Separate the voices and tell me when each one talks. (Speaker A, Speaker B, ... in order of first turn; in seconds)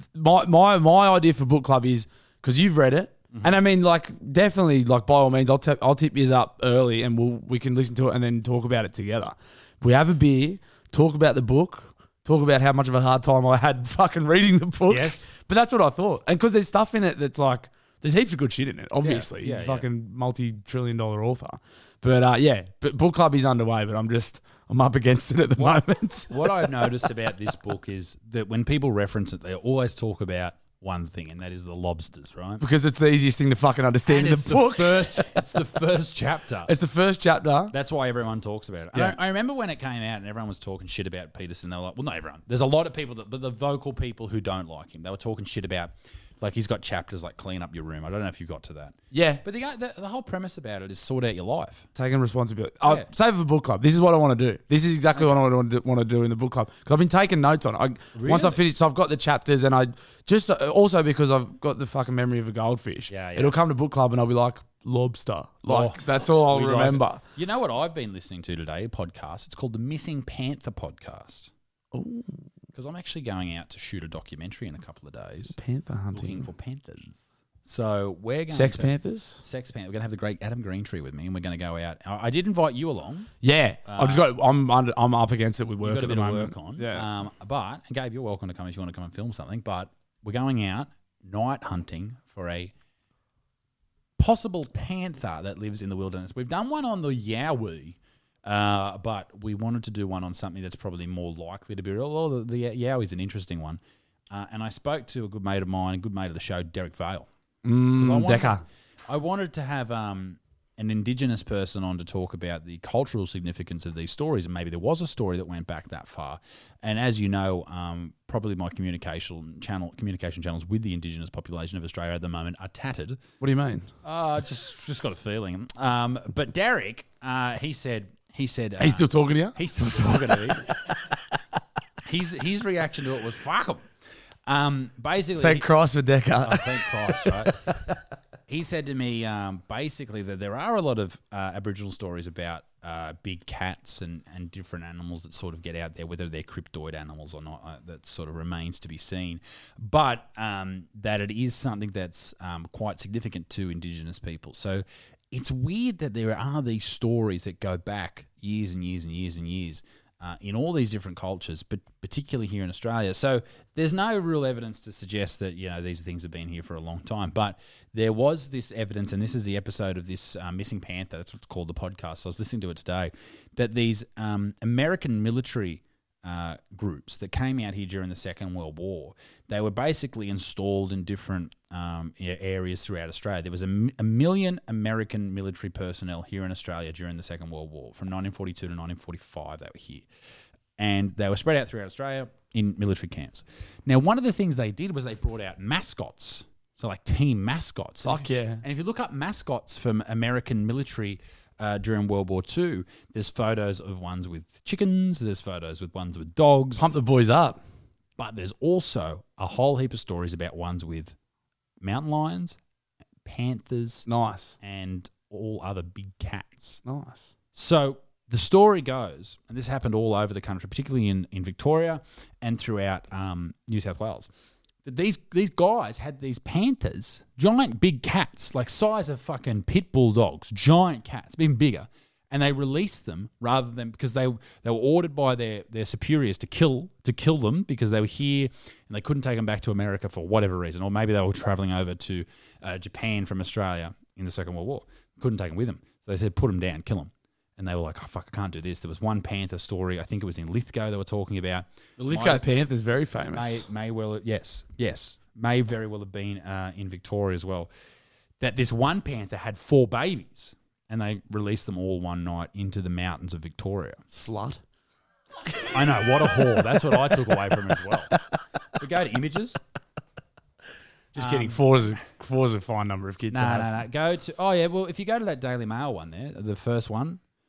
Speaker A: 0.1-27.1, 32.6-35.6, 36.6-37.7, 38.9-39.2, 49.1-49.4, 52.0-67.2, 71.9-72.4, 75.5-76.5, 78.5-79.4, 83.4-87.1, 107.6-108.6, 123.4-123.9, 128.8-130.6, 135.4-137.9, 198.0-198.6, 206.8-207.6, 214.1-214.6, 216.8-217.3, 252.0-253.7, 264.1-264.6, 265.5-267.1, 271.1-273.8
Speaker B: 3.3-3.6, 14.9-15.3, 19.0-19.9, 25.6-32.6, 34.0-36.7, 37.7-51.9, 52.8-53.1, 55.1-55.4, 58.1-58.6, 63.1-63.6, 65.7-71.5, 72.7-75.6, 76.1-83.3, 83.8-84.3, 85.8-92.7, 94.2-107.3, 107.9-123.2, 124.0-130.7, 132.0-133.9, 134.5-135.7, 136.4-137.6, 138.5-190.1, 190.8-206.9, 208.2-211.1, 211.8-212.6, 213.2-214.1, 214.6-216.8, 217.5-224.3, 224.8-252.4, 253.3-257.7, 258.4-264.0, 265.7-268.1, 268.8-269.6, 271.1-271.9, 273.3-277.2